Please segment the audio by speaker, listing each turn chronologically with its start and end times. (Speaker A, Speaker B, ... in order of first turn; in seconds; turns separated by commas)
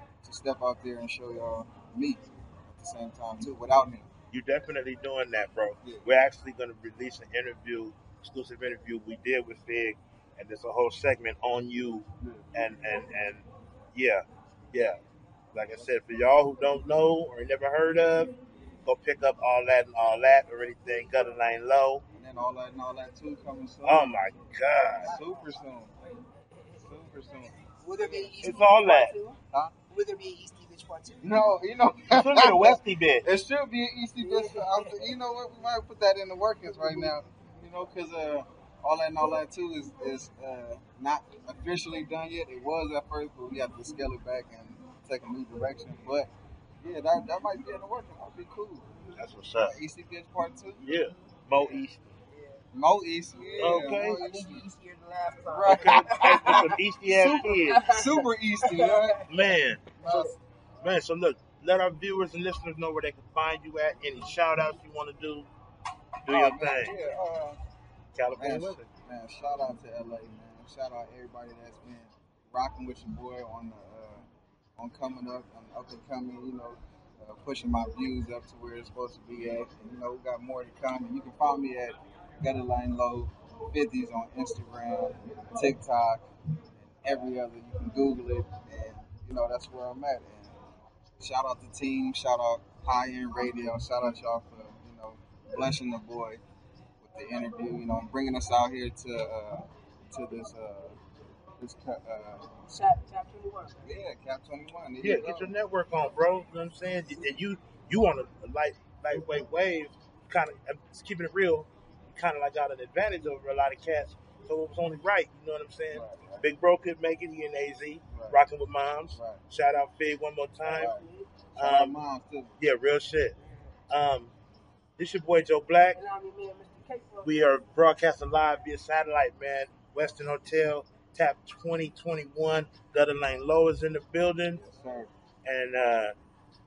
Speaker A: 0.2-4.1, Speaker B: 4.3-15.0, Speaker A: 5.8-6.1, Speaker A: 12.2-12.6, Speaker B: 15.5-18.3, Speaker B: 18.9-22.0, Speaker A: 22.1-24.3, Speaker B: 23.8-25.1, Speaker A: 25.0-25.9, Speaker C: 25.0-25.8, Speaker C: 26.5-26.8, Speaker A: 26.8-28.4, Speaker C: 27.8-31.5, Speaker B: 28.4-29.1, Speaker A: 31.2-46.3, Speaker B: 32.1-33.3, Speaker C: 34.2-35.1, Speaker A: 46.8-48.9, Speaker B: 49.2-49.8, Speaker A: 49.6-51.0, Speaker B: 50.8-52.1, Speaker C: 51.5-52.6, Speaker A: 52.7-54.6, Speaker C: 53.5-59.4, Speaker B: 53.6-54.2, Speaker A: 55.5-59.2, Speaker B: 55.6-57.9, Speaker B: 59.3-60.3, Speaker A: 60.0-60.4, Speaker C: 60.0-60.4, Speaker B: 60.8-65.5, Speaker B: 66.2-67.0, Speaker A: 66.3-67.6, Speaker B: 68.2-68.9, Speaker A: 68.4-74.2, Speaker A: 74.8-86.3, Speaker A: 86.8-90.6, Speaker A: 91.2-96.4, Speaker A: 97.0-101.0, Speaker A: 101.6-102.5, Speaker C: 102.7-103.9, Speaker A: 103.8-105.6, Speaker B: 105.0-120.9, Speaker A: 115.9-116.5, Speaker A: 118.1-118.4, Speaker A: 119.1-119.4, Speaker C: 120.7-121.3, Speaker A: 120.7-121.0, Speaker B: 121.6-122.0, Speaker A: 121.6-122.5, Speaker B: 122.6-123.3, Speaker B: 123.9-124.3, Speaker B: 125.0-126.0, Speaker C: 125.9-127.5, Speaker B: 127.2-134.6, Speaker A: 134.6-135.1, Speaker B: 135.4-136.1